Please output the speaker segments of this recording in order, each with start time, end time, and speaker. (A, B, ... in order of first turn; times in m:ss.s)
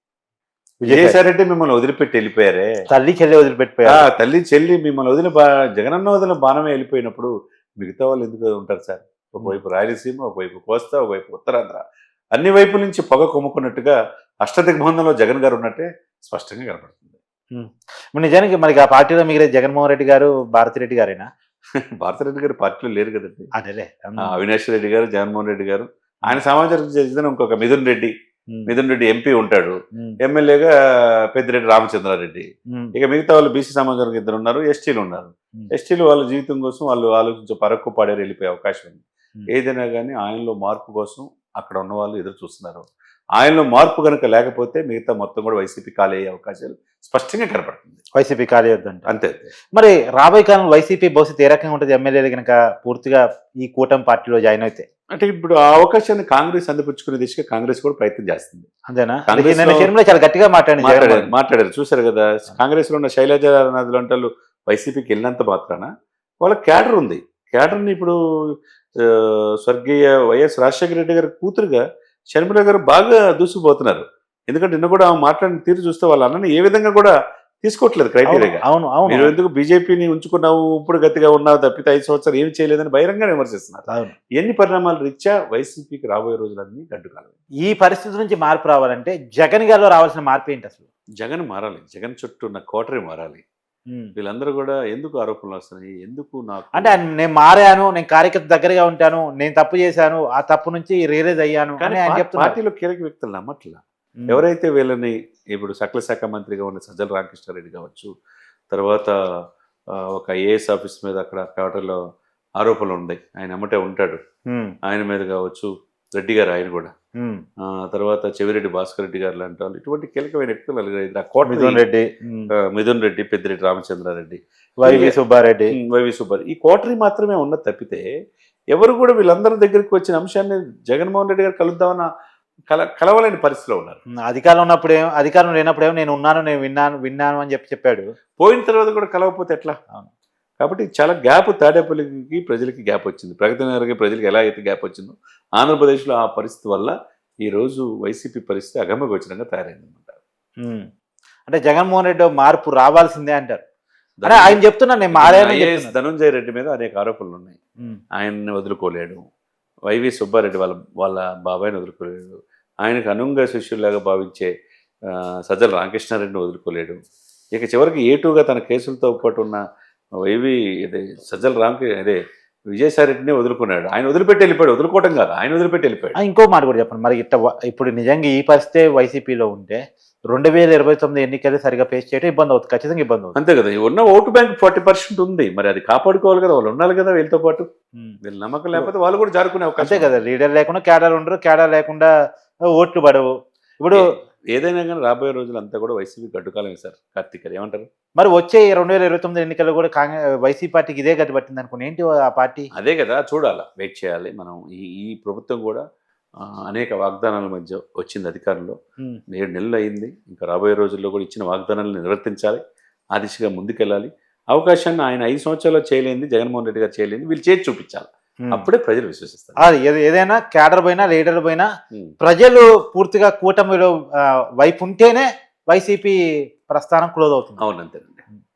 0:00.8-0:01.2 A
0:00.9-0:02.7 B
0:02.9-0:04.1 A
0:03.9-0:11.8 B
0:12.4-0:17.2 B
0:17.5-0:21.3 A
0:22.0-0:23.5 B
0:23.6-0:24.4 A
0:24.2-0:28.1 B
0:28.7-0:48.0 B
0:48.2-0:49.1 A
0:49.1-0:49.5 B
0:49.7-0:54.9 A
0:55.2-0:58.7 B
0:58.9-1:01.3 A
0:59.3-0:59.9 B
1:00.8-1:05.9 B
1:06.4-1:11.8 B
1:12.3-1:27.3 B
1:18.3-1:19.3 A
1:23.9-1:24.1 A
1:27.6-1:30.9 A
1:31.2-1:33.4 B
1:34.2-1:37.0 B
1:36.8-1:42.6 A
1:41.8-1:48.1 B
1:48.7-1:49.1 B
1:49.9-1:52.0 B
1:52.6-1:54.2 B
1:54.5-1:54.8 A
1:54.8-1:56.9 B
1:57.2-1:57.4 A
1:57.6-2:01.8 B
2:01.5-2:02.5 A
2:02.6-2:05.2 B
2:04.8-2:05.8 A
2:05.7-2:08.1 B
2:08.7-2:12.1 B
2:12.7-2:14.0 B
2:14.2-2:18.1 A
2:18.4-2:19.8 B
2:20.6-2:26.9 B
2:27.5-2:30.2 B
2:30.6-2:30.9 A
2:31.5-2:33.6 A
2:34.2-2:34.6 B
2:34.2-2:35.9 A
2:35.2-2:37.6 B
2:38.2-2:39.2 B
2:39.9-2:44.5 B
2:45.1-2:47.0 B
2:47.6-2:49.6 B
2:50.3-2:52.2 B
2:52.7-2:56.2 B
2:56.2-3:03.4 A
3:03.4-3:07.7 B
3:08.2-3:10.2 B
3:09.8-3:12.1 A
3:12.7-3:14.1 A
3:13.9-3:17.9 B
3:18.2-3:22.7 A
3:22.7-3:25.8 B
3:26.4-3:28.8 B
3:29.3-3:32.6 B
3:33.2-3:39.6 B
3:39.6-3:41.7 A
3:42.2-3:47.6 A
3:47.6-3:48.2 B